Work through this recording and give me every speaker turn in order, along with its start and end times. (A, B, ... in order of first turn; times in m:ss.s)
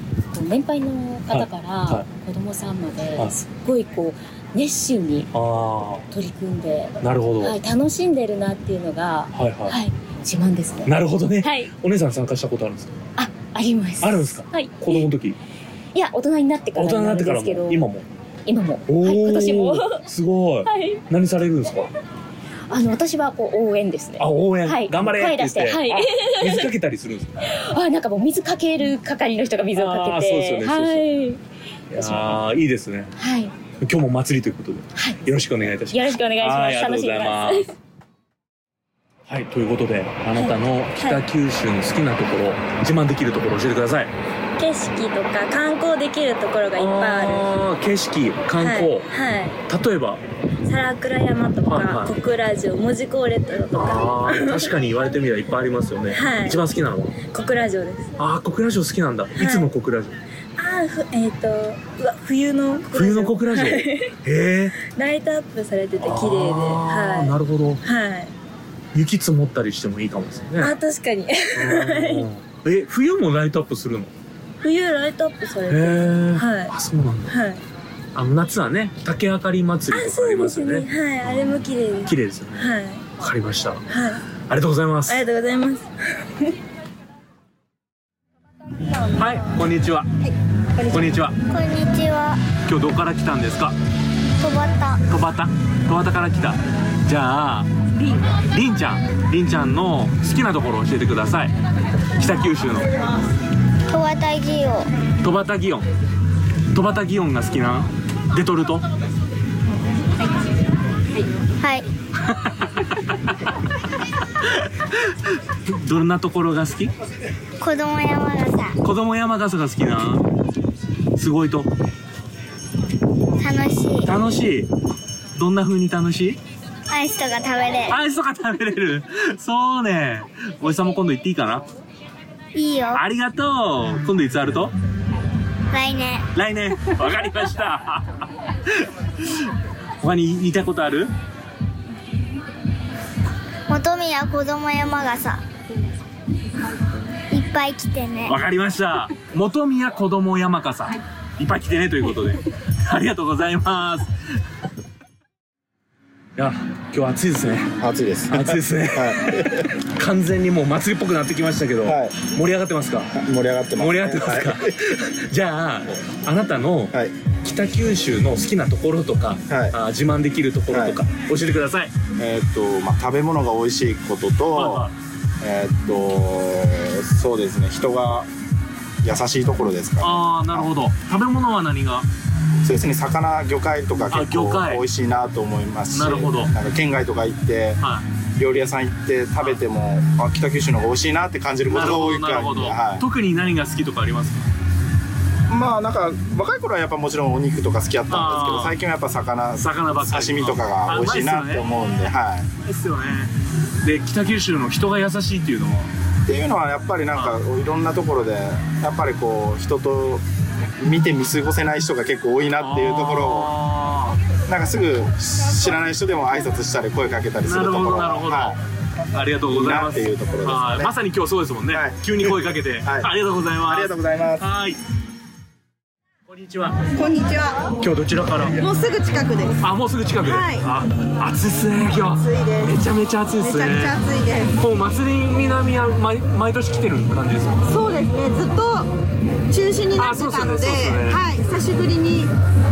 0:00.3-0:05.3 A
0:01.3-0:02.1 B
0:05.3-0:06.0 B
0:06.1-0:11.7 A
0:07.0-0:07.6 B
0:09.3-0:09.8 B
0:10.8-0:13.0 B
0:13.2-0:15.1 A
0:14.0-0:15.4 B
0:15.9-0:17.8 A
0:16.7-0:18.0 B
0:18.4-0:20.0 A
0:18.9-0:21.9 B
0:20.6-0:21.0 A
0:22.7-0:26.7 A
0:24.2-0:27.5 B
0:27.4-0:31.4 A
0:29.7-0:31.3 B
0:31.9-0:33.1 B
0:32.0-0:32.4 A
0:33.2-0:33.5 A
0:33.8-0:37.7 B
0:35.9-0:37.6 A
0:39.3-0:44.1 B
0:41.0-0:41.2 C
0:44.6-0:47.5 C
0:46.7-0:49.1 B
0:48.5-0:49.6 C
0:49.7-0:50.2 B
0:50.6-0:54.7 C
0:51.6-0:52.2 B
0:53.7-0:57.2 B
0:56.1-0:56.6 C
0:57.2-0:58.1 C
0:58.2-1:00.2 B
0:59.4-0:59.7 C
1:00.6-1:04.1 C
1:02.9-1:04.8 B
1:04.8-1:08.3 C
1:06.0-1:07.8 B
1:08.9-1:10.7 B
1:10.6-1:12.2 C
1:11.5-1:14.1 B
1:14.6-1:16.7 C
1:15.7-1:17.4 B
1:17.3-1:17.6 C
1:18.1-1:23.8 B
1:19.9-1:23.0 C
1:23.9-1:24.3 C
1:24.4-1:25.2 B
1:25.1-1:25.9 C
1:29.0-1:30.1 B
1:30.8-1:31.4 B
1:31.5-1:32.4 D
1:32.6-1:33.7 B
1:34.4-1:35.0 D
1:35.1-1:37.7 B
1:38.4-1:41.5 B
1:42.2-1:42.9 B
1:43.9-1:44.9 D
1:45.2-1:45.8 B
1:46.7-1:48.8 B
1:55.6-1:56.9 B
1:57.6-1:58.7 D
1:58.8-2:00.3 B
2:01.2-2:01.7 B
2:03.4-2:04.1 D
2:04.0-2:04.7 B
2:05.3-2:06.4 B
2:06.9-2:08.0 D
2:07.9-2:11.6 B
2:12.5-2:13.0 D
2:12.9-2:14.7 B
2:15.7-2:16.2 D
2:16.3-2:18.2 B
2:20.0-2:21.1 B
2:23.7-2:25.4 D
2:27.3-2:28.3 D
2:28.3-2:34.1 B
2:36.4-2:37.7 B
2:37.8-2:39.5 E
2:38.3-2:43.1 B
2:41.8-2:42.2 E
2:43.1-2:44.6 E
2:43.8-2:51.9 B
2:49.5-2:49.8 E
2:50.7-2:51.0 E
2:52.2-2:54.9 E
2:54.5-2:54.9 B
2:55.4-2:58.3 E
2:59.0-3:00.7 E
3:00.0-3:02.1 B
3:02.6-3:07.8 E
3:04.1-3:04.8 B
3:05.9-3:06.5 B
3:07.8-3:08.0 B
3:08.4-3:13.0 E
3:11.7-3:14.4 B
3:15.5-3:22.5 E
3:18.1-3:18.8 B
3:19.6-3:21.7 B
3:22.6-3:23.3 B
3:23.8-3:25.9 B
3:26.2-3:30.2 E
3:27.1-3:27.4 B
3:30.8-3:33.5 E
3:32.6-3:34.2 B
3:34.5-3:38.6 E
3:37.4-3:38.6 B
3:39.1-3:44.8 B
3:39.5-3:40.9 E
3:41.7-3:43.1 E
3:43.6-3:44.5 E
3:46.3-3:46.8 B
3:46.9-3:47.6 F
3:47.8-3:48.6 B
3:48.6-3:49.6 F
3:49.6-3:54.0 B
3:50.2-3:50.6 F
3:52.2-3:52.7 F
3:53.4-3:54.5 F
3:54.6-3:57.6 B
3:57.6-3:58.9 F
3:59.5-4:02.3 F
4:00.0-4:01.2 B